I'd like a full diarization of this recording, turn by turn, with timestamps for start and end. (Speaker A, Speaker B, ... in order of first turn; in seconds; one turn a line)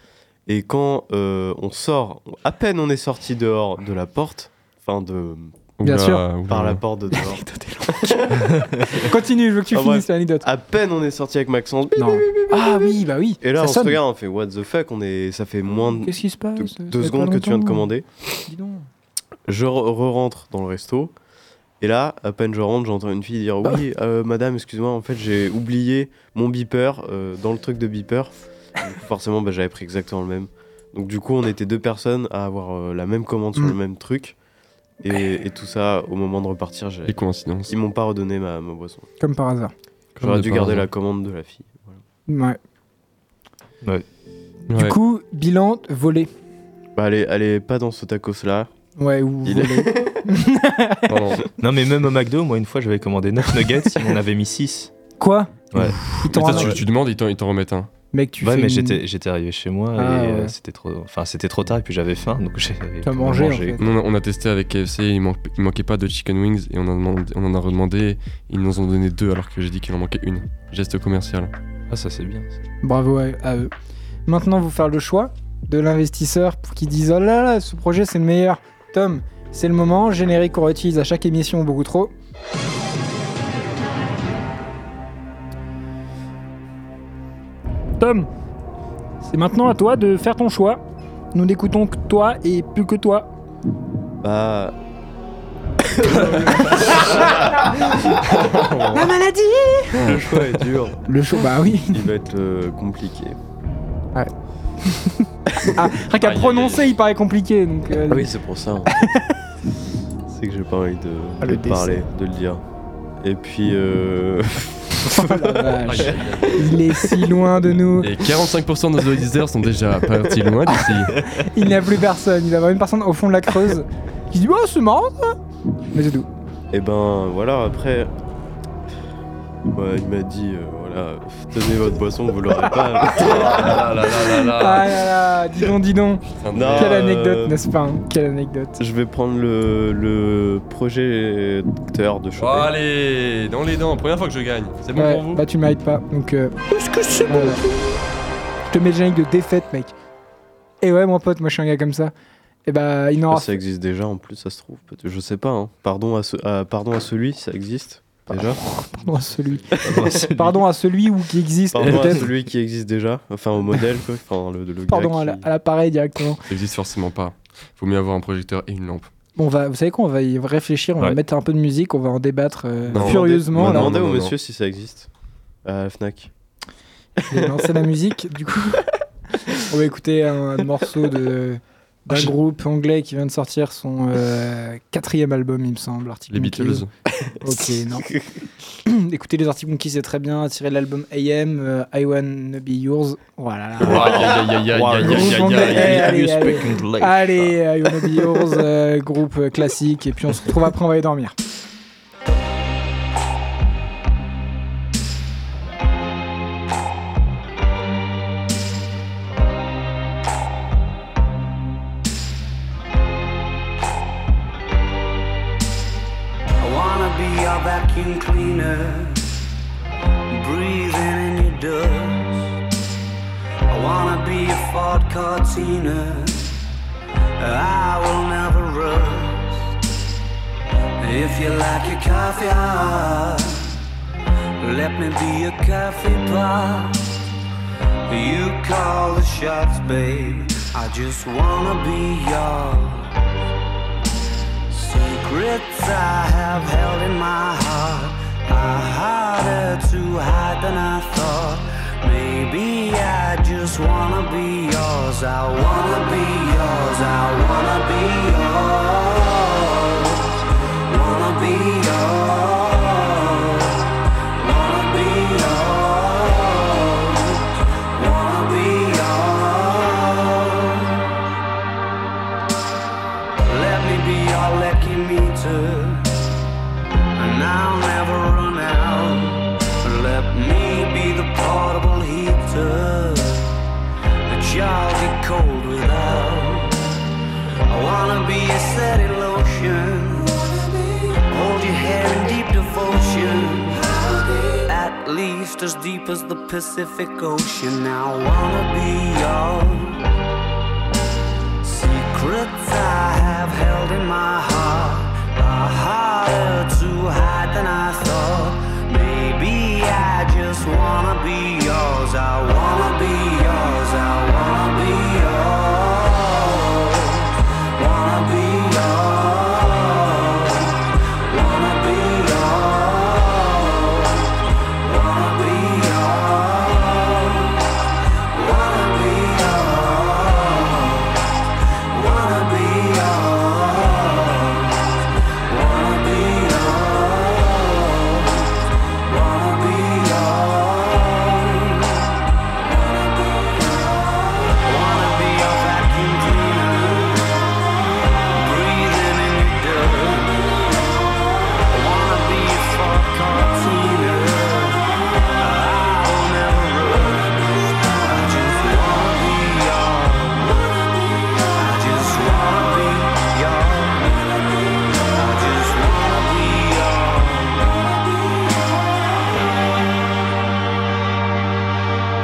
Speaker A: 0.5-5.5
Speaker B: 5.8-6.8
Speaker C: 5.8-6.2
Speaker A: 6.5-9.1
Speaker C: 7.1-10.5
Speaker A: 9.7-12.8
Speaker C: 11.9-14.0
Speaker A: 13.4-18.1
Speaker C: 15.7-17.9
Speaker C: 18.5-18.9
Speaker A: 19.5-21.1
Speaker A: 21.8-34.3
Speaker A: 35.0-39.1
Speaker B: 37.0-37.7
Speaker C: 39.2-39.7
Speaker B: 40.1-40.9
Speaker A: 40.2-42.0
Speaker C: 42.3-42.6
Speaker C: 44.7-46.3
Speaker B: 44.7-45.0
Speaker A: 47.0-48.7
Speaker C: 49.0-51.2
Speaker A: 49.4-50.3
Speaker B: 51.1-51.4
Speaker D: 51.6-54.9
Speaker C: 55.2-56.8
Speaker D: 55.7-56.5
Speaker B: 56.1-57.9
Speaker C: 58.1-59.0
Speaker D: 58.4-63.9
Speaker C: 59.9-60.5
Speaker C: 63.0-63.8
Speaker B: 63.8-71.5
Speaker D: 71.9-72.5
Speaker C: 72.8-73.7
Speaker C: 74.3-82.1
Speaker C: 88.0-88.3
Speaker C: 89.2-90.8
Speaker C: 91.3-93.3
Speaker A: 94.2-94.8
Speaker A: 95.8-97.8
Speaker B: 96.0-97.0
Speaker C: 96.7-97.7
Speaker B: 98.1-99.1
Speaker C: 98.9-100.2
Speaker A: 100.0-101.0
Speaker C: 101.0-102.0
Speaker A: 101.9-103.4
Speaker C: 104.1-108.3
Speaker A: 105.5-105.8
Speaker B: 106.1-106.9
Speaker A: 108.1-108.9
Speaker C: 108.8-109.4
Speaker A: 110.3-112.6
Speaker C: 111.4-112.0
Speaker A: 113.2-115.2
Speaker C: 115.0-118.2
Speaker B: 115.8-116.8
Speaker B: 118.0-121.2
Speaker C: 120.7-125.4
Speaker C: 125.9-126.3
Speaker A: 126.7-128.1
Speaker A: 129.7-134.3
Speaker B: 133.0-135.1
Speaker C: 134.5-138.8
Speaker B: 136.4-137.0
Speaker A: 136.5-137.6
Speaker A: 138.8-142.7
Speaker B: 142.4-145.4
Speaker C: 144.9-147.6
Speaker C: 148.7-149.9
Speaker C: 150.8-152.1
Speaker C: 152.7-153.6
Speaker A: 153.3-158.6
Speaker C: 158.3-162.3
Speaker A: 159.7-160.3
Speaker D: 159.8-160.6
Speaker A: 161.7-165.5
Speaker D: 161.8-162.2
Speaker C: 164.9-166.4
Speaker B: 166.5-169.1
Speaker C: 169.4-173.9
Speaker B: 172.9-173.2
Speaker A: 172.9-175.1
Speaker D: 173.3-174.3
Speaker A: 175.6-176.3
Speaker C: 177.2-178.9
Speaker A: 177.3-177.8
Speaker C: 179.6-186.8
Speaker B: 186.3-186.9
Speaker C: 187.3-188.1
Speaker C: 188.8-194.4
Speaker B: 193.8-196.3
Speaker D: 193.8-198.5
Speaker C: 194.9-201.3
Speaker E: 216.6-219.3
Speaker E: 220.3-222.6
Speaker E: 223.7-226.6
Speaker E: 227.4-229.8
Speaker E: 231.0-233.8
Speaker E: 234.6-237.1
Speaker E: 238.1-243.2
Speaker E: 244.7-271.1
Speaker E: 273.4-276.1
Speaker E: 277.1-283.5
Speaker E: 284.2-287.0
Speaker E: 287.6-300.1
Speaker E: 301.6-347.4
Speaker E: 348.3-351.0
Speaker E: 351.7-368.8